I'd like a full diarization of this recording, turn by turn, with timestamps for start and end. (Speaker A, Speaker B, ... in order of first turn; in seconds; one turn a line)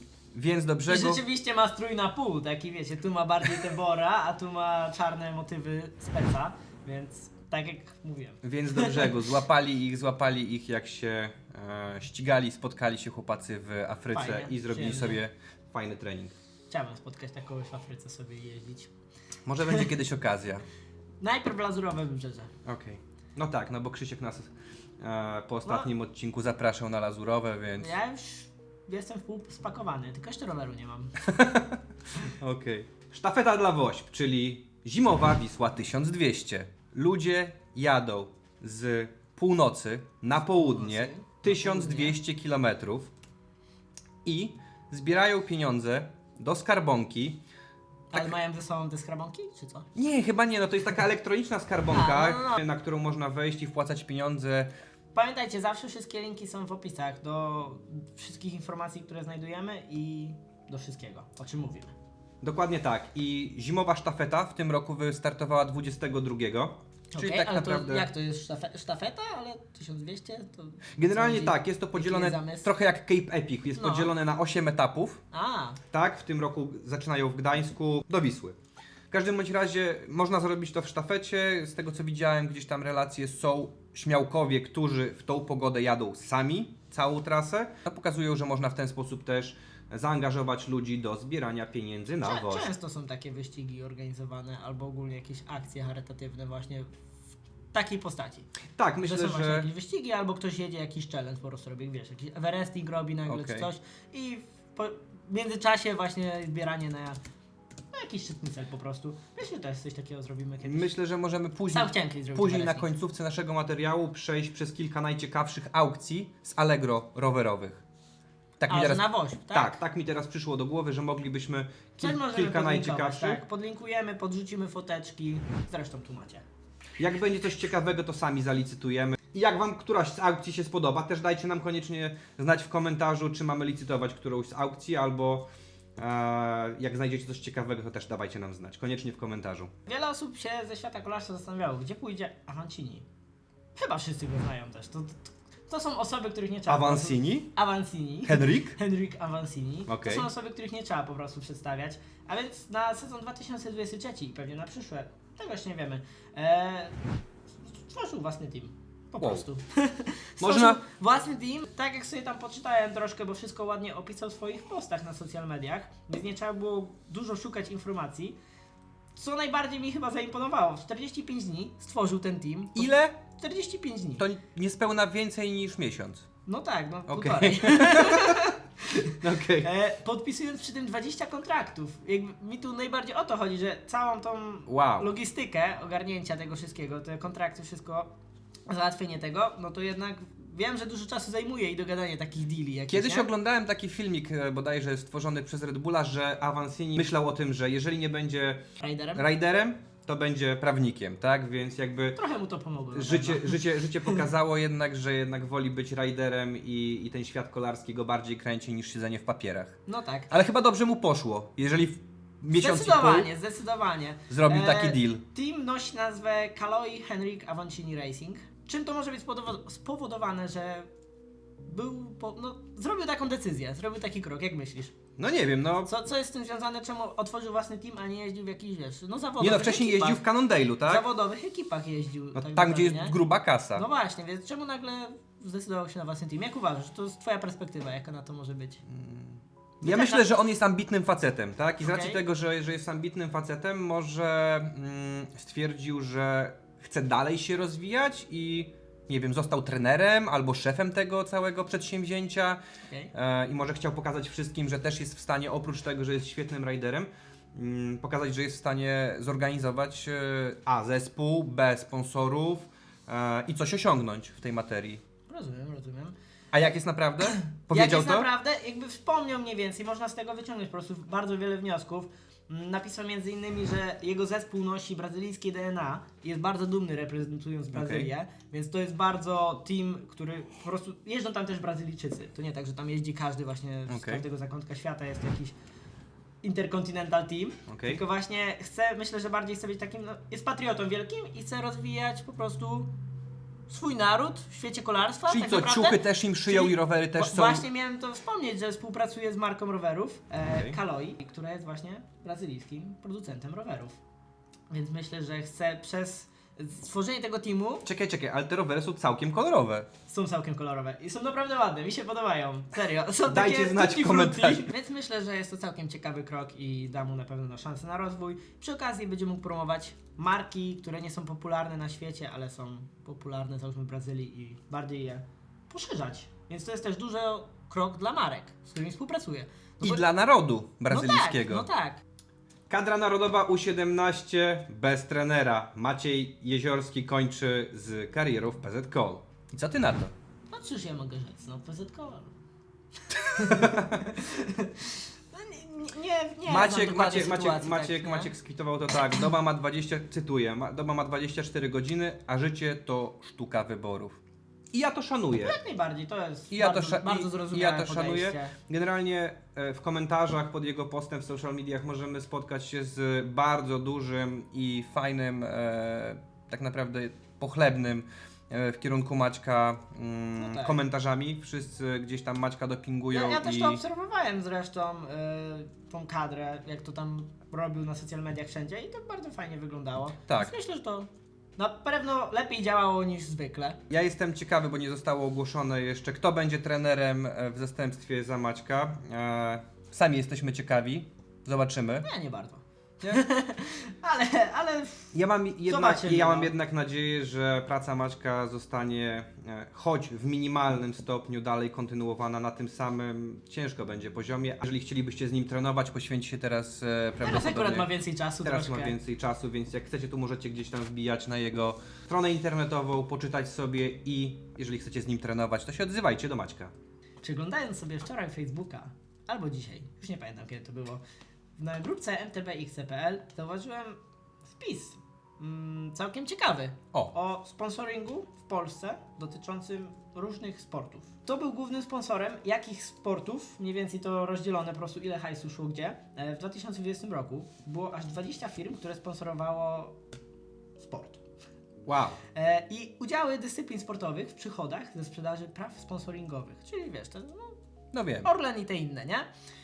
Speaker A: 0.3-1.2
Speaker B: 0.9-9.3
Speaker A: 8.4-16.4
Speaker B: 14.1-15.2
Speaker B: 16.7-18.9
Speaker A: 19.4-20.6
Speaker B: 21.2-22.5
Speaker A: 22.6-27.9
Speaker B: 27.8-31.1
Speaker A: 31.3-43.1
Speaker B: 40.5-42.2
Speaker A: 44.2-47.4
Speaker B: 48.1-49.9
Speaker A: 50.0-54.7
Speaker B: 51.9-52.6
Speaker B: 55.1-61.9
Speaker A: 62.4-68.1
Speaker B: 67.1-72.7
Speaker A: 71.0-75.2
Speaker B: 73.8-74.1
Speaker B: 75.3-75.8
Speaker A: 75.9-78.5
Speaker A: 79.1-92.7
Speaker B: 92.2-96.9
Speaker B: 97.7-98.5
Speaker A: 98.8-99.7
Speaker B: 99.0-107.2
Speaker A: 103.3-103.7
Speaker B: 107.9-110.9
Speaker A: 110.6-117.8
Speaker B: 111.7-112.9
Speaker A: 118.6-123.4
Speaker B: 118.7-119.8
Speaker B: 122.0-126.4
Speaker A: 127.0-135.4
Speaker A: 136.0-139.7
Speaker B: 139.9-143.1
Speaker B: 143.8-157.0
Speaker A: 146.7-147.5
Speaker A: 148.3-148.8
Speaker A: 149.9-150.3
Speaker B: 157.6-168.3
Speaker A: 159.2-159.4
Speaker A: 160.4-160.8
Speaker B: 169.1-174.2
Speaker A: 172.7-173.1
Speaker A: 174.2-176.2
Speaker B: 176.5-188.1
Speaker A: 177.1-179.7
Speaker A: 184.7-185.1
Speaker B: 188.7-193.3
Speaker A: 192.9-198.6
Speaker B: 198.8-199.2
Speaker A: 199.1-202.2
Speaker B: 202.2-204.2
Speaker A: 202.9-209.8
Speaker B: 209.9-210.3
Speaker A: 210.3-213.3
Speaker B: 212.5-220.9
Speaker A: 214.3-215.2
Speaker B: 221.6-224.9
Speaker A: 225.2-225.9
Speaker B: 225.8-230.2
Speaker A: 229.4-231.0
Speaker B: 230.8-233.2
Speaker A: 232.3-233.8
Speaker B: 233.7-238.8
Speaker A: 238.9-252.6
Speaker B: 239.8-240.2
Speaker B: 241.8-242.2
Speaker B: 252.9-253.1
Speaker A: 253.1-265.0
Speaker B: 265.3-266.1
Speaker A: 266.5-268.3
Speaker B: 267.2-285.6
Speaker A: 277.7-278.1
Speaker A: 283.9-284.2
Speaker B: 286.4-292.9
Speaker A: 287.7-288.0
Speaker B: 293.7-304.0
Speaker A: 295.3-297.6
Speaker A: 300.4-300.8
Speaker B: 304.7-307.8
Speaker A: 307.8-309.9
Speaker B: 310.1-330.0
Speaker A: 313.2-314.7
Speaker A: 329.8-331.7
Speaker B: 330.9-332.0
Speaker A: 332.7-340.1
Speaker B: 340.5-342.3
Speaker B: 343.1-348.3
Speaker A: 343.4-344.0
Speaker A: 346.4-354.2
Speaker A: 354.7-355.6
Speaker B: 355.4-358.5
Speaker A: 356.5-373.8
Speaker B: 370.4-370.8
Speaker B: 373.1-383.8
Speaker A: 383.9-392.1
Speaker B: 392.0-395.1
Speaker A: 395.1-407.9
Speaker B: 395.6-396.5
Speaker B: 407.2-408.9
Speaker A: 408.4-416.7
Speaker B: 417.2-421.0
Speaker B: 421.6-424.0
Speaker B: 424.5-439.9
Speaker B: 440.8-441.2
Speaker A: 441.9-442.2
Speaker B: 442.3-447.6
Speaker A: 447.9-448.3
Speaker B: 448.2-449.3